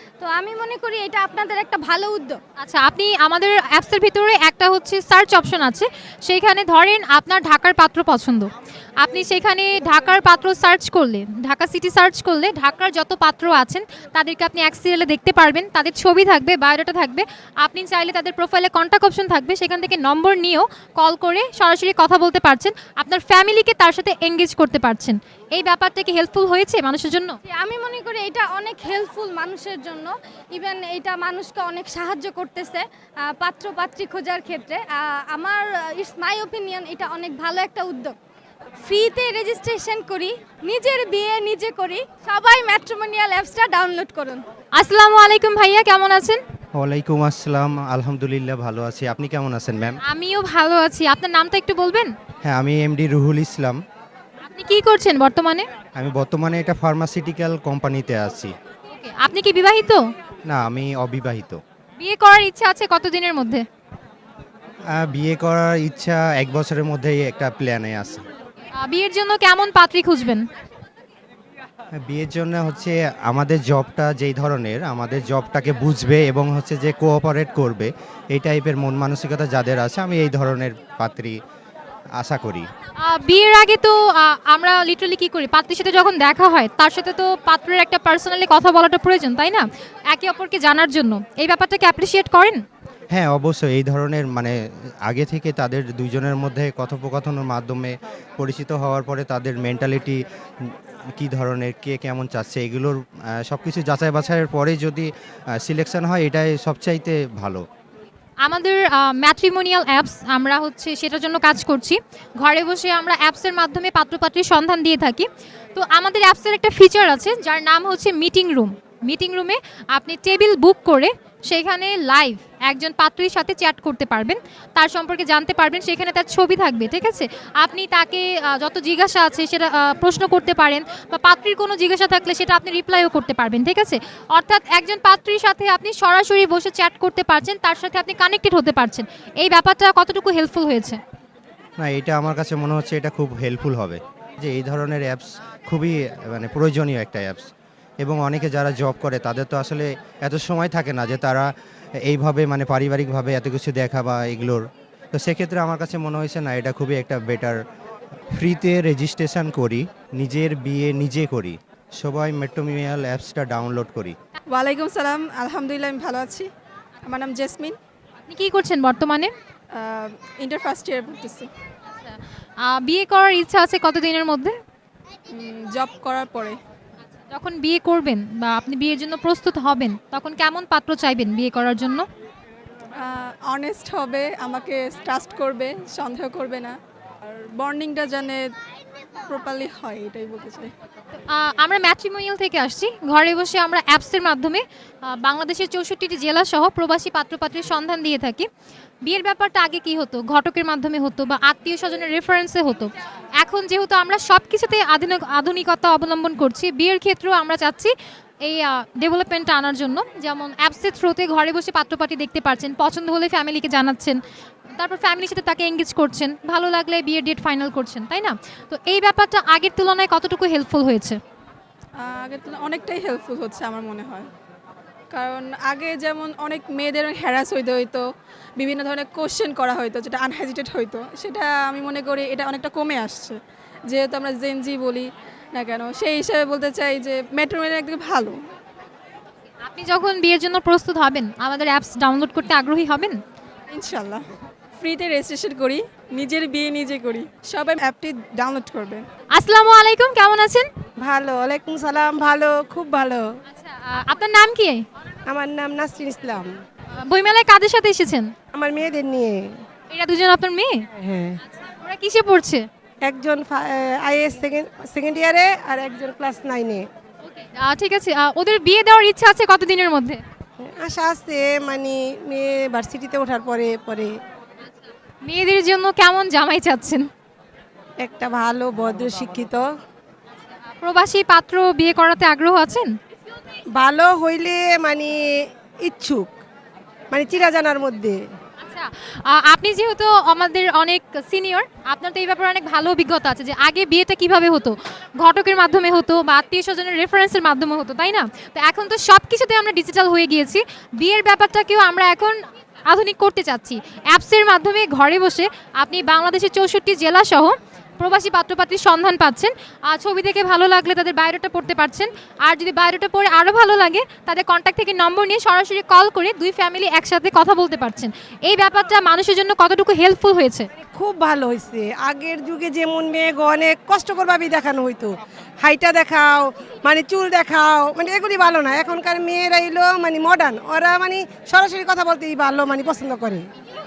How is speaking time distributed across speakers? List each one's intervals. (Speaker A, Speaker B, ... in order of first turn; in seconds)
Speaker A: 0.2-2.4, 27.5-38.1, 38.8-44.4
Speaker B: 2.6-27.4, 44.8-46.4, 50.1-52.1, 54.5-55.7, 58.9-60.0, 62.0-63.6, 68.7-70.5, 83.0-92.6, 108.4-141.0, 168.3-169.3, 171.9-174.6, 177.3-182.1, 191.2-198.5, 199.0-214.2, 214.7-221.2, 239.7-243.2, 249.3-250.7, 253.5-254.8, 256.9-258.3, 259.9-260.9, 261.5-262.7, 267.2-270.2, 275.2-277.1, 280.8-282.9, 288.6-320.7
Speaker C: 46.7-50.0, 52.4-53.8, 55.9-58.5, 60.5-61.6, 64.9-68.2, 72.0-81.4, 82.2-82.7, 93.1-107.7, 141.8-147.5, 148.0-157.6, 158.3-164.2
Speaker D: 164.5-166.5, 167.0-167.8, 169.7-171.5, 175.3-176.6, 183.0-188.5, 189.3-190.7, 222.0-224.3, 225.1-228.0, 228.6-238.4, 243.7-244.2, 244.8-249.0
Speaker E: 251.0-253.2, 255.3-256.6, 258.5-259.6, 260.9-261.4, 263.0-266.8, 270.6-274.1, 278.0-279.7, 283.8-285.2, 285.8-286.3, 287.1-288.2, 320.8-333.4